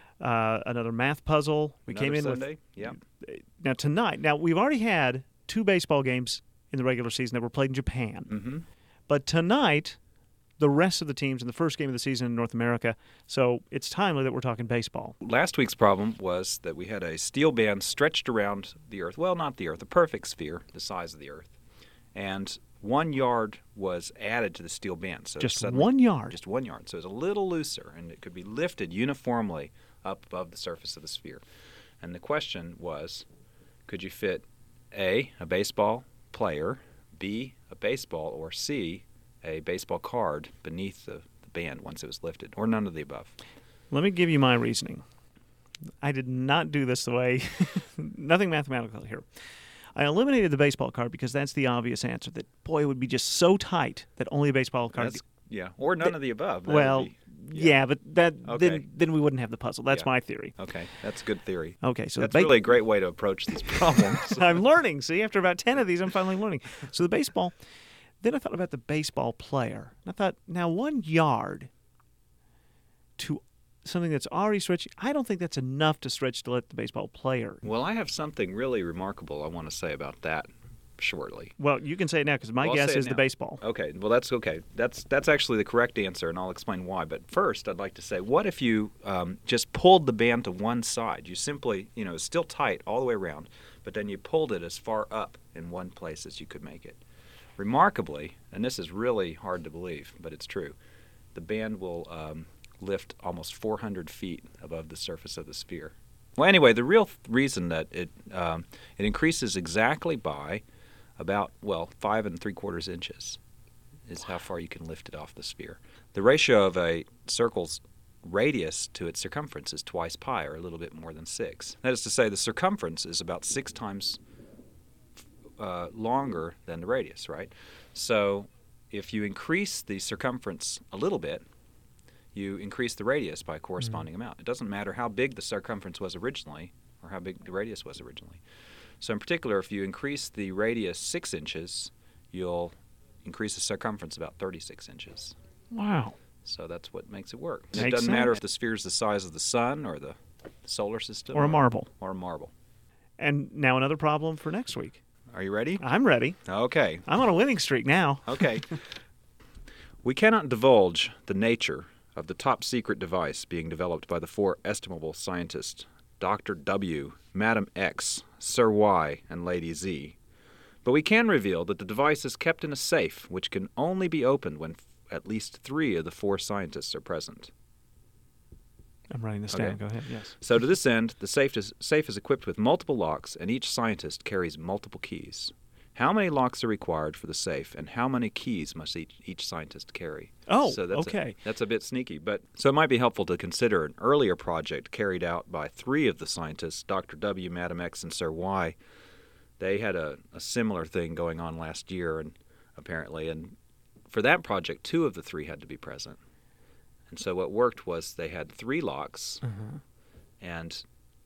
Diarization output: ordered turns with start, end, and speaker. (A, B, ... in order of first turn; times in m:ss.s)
0:00.2-0:08.3 A
0:01.9-0:03.0 B
0:08.3-0:08.6 B
0:09.1-0:10.0 A
0:10.6-0:15.2 A
0:15.2-0:21.5 B
0:22.1-0:31.4 B
0:25.4-0:26.4 A
0:32.0-0:33.2 B
0:33.9-0:43.3 B
0:43.9-0:45.0 A
0:46.0-0:49.2 A
0:49.9-0:55.2 A
0:55.0-0:57.8 B
0:56.7-1:00.6 A
0:58.4-0:58.8 B
0:59.9-1:04.6 B
1:01.8-1:02.5 A
1:04.2-1:07.5 A
1:08.2-1:11.7 A
1:13.2-1:17.6 A
1:17.6-1:21.5 B
1:21.6-1:23.6 A
1:22.6-1:37.0 B
1:37.6-1:40.8 B
1:41.3-1:50.6 B
1:51.2-1:53.4 B
1:54.1-2:04.2 B
2:05.6-2:11.4 B
2:12.3-2:18.4 B
2:19.0-2:22.7 B
2:23.2-2:25.3 B
2:25.7-2:26.2 A
2:26.4-2:32.5 B
2:27.8-2:28.3 A
2:31.3-2:31.9 A
2:33.2-2:35.0 A
2:35.3-2:35.8 B
2:35.8-2:36.4 A
2:36.4-2:37.0 B
2:37.0-2:38.5 A
2:38.2-2:38.8 B
2:40.0-2:50.2 B
2:50.8-2:57.5 B
2:59.1-3:00.3 A
2:59.5-2:59.8 B
3:00.4-3:18.8 B
3:10.5-3:11.4 A
3:19.6-3:23.5 B
3:24.1-3:26.2 B
3:27.1-3:29.4 B
3:29.4-3:29.8 A
3:30.4-3:30.8 B